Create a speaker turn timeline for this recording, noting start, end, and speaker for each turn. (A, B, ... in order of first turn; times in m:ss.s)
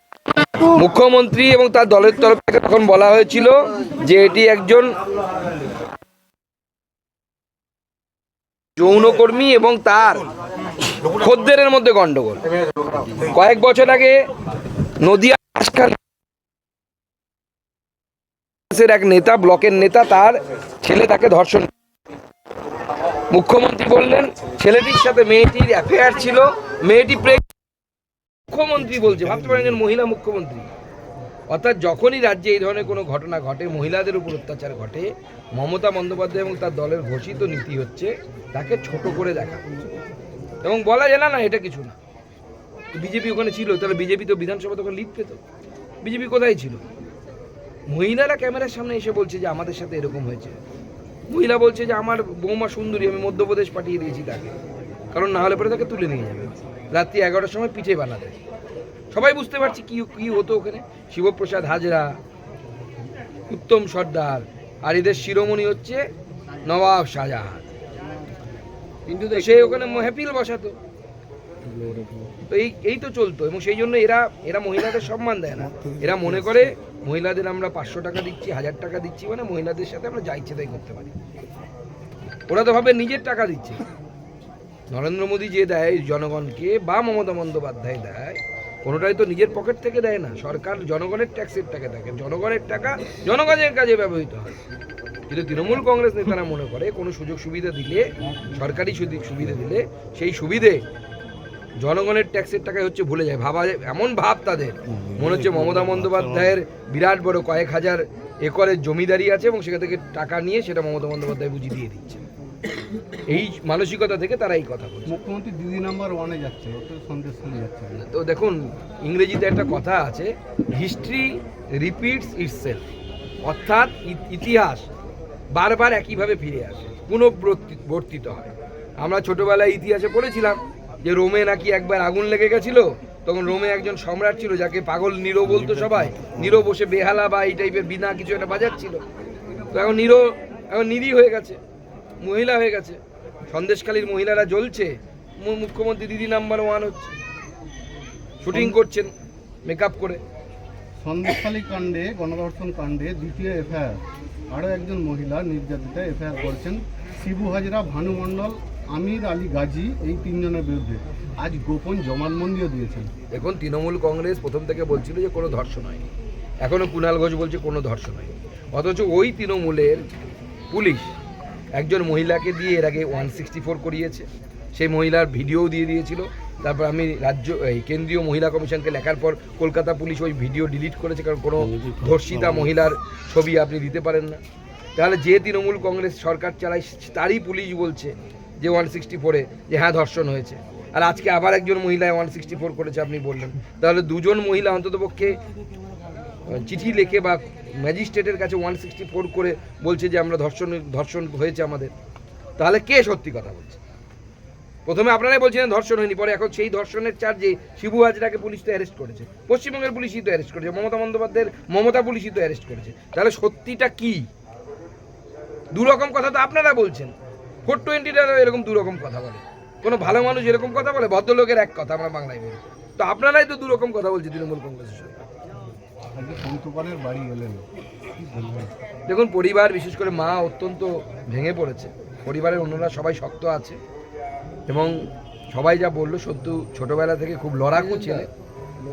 0:00.6-0:04.9 A
0:08.8-0:10.3 A
0:11.0-0:12.4 A
0:13.3-0:14.2 A
0:15.0-0:16.0 A
0:18.7-0:21.7 A
0:23.3-0:27.4 A
0:28.5-0:30.6 A
0:31.5-0:39.6 A
0:40.6-0:42.0 A
0:42.9-0:45.4 A
0:46.0-0:46.8 A
0:47.9-0:50.6 A
0:51.3-0:54.5 A
0:55.1-0:58.4 A
0:59.1-1:02.1 A
1:03.5-1:06.0 A
1:06.6-1:07.6 A
1:09.3-1:10.8 A
1:12.5-1:21.1 A
1:22.5-1:23.8 A
1:24.9-1:34.6 A
1:35.3-1:40.8 A
1:41.8-1:52.2 A
1:45.2-1:46.5 B
1:53.3-1:55.1 A
1:55.1-1:58.0 B
1:58.0-2:02.8 A
2:03.4-2:04.9 A
2:05.5-2:19.0 A
2:19.7-2:21.6 A
2:22.2-2:27.1 A
2:28.4-2:29.1 A
2:28.5-2:28.8 B
2:29.6-2:30.2 A
2:31.0-2:34.0 B
2:34.5-2:43.1 B
2:43.3-2:46.0 A
2:46.6-2:50.0 A
2:50.7-2:51.1 A
2:51.8-3:04.4 A
3:05.0-3:15.4 A
3:16.5-3:21.9 A
3:22.6-3:23.8 A
3:24.9-3:34.2 A
3:35.7-3:37.1 A
3:37.6-3:45.1 A
3:46.1-3:48.7 B
3:49.1-3:53.8 A
3:54.7-3:55.0 A
3:55.5-3:58.3 A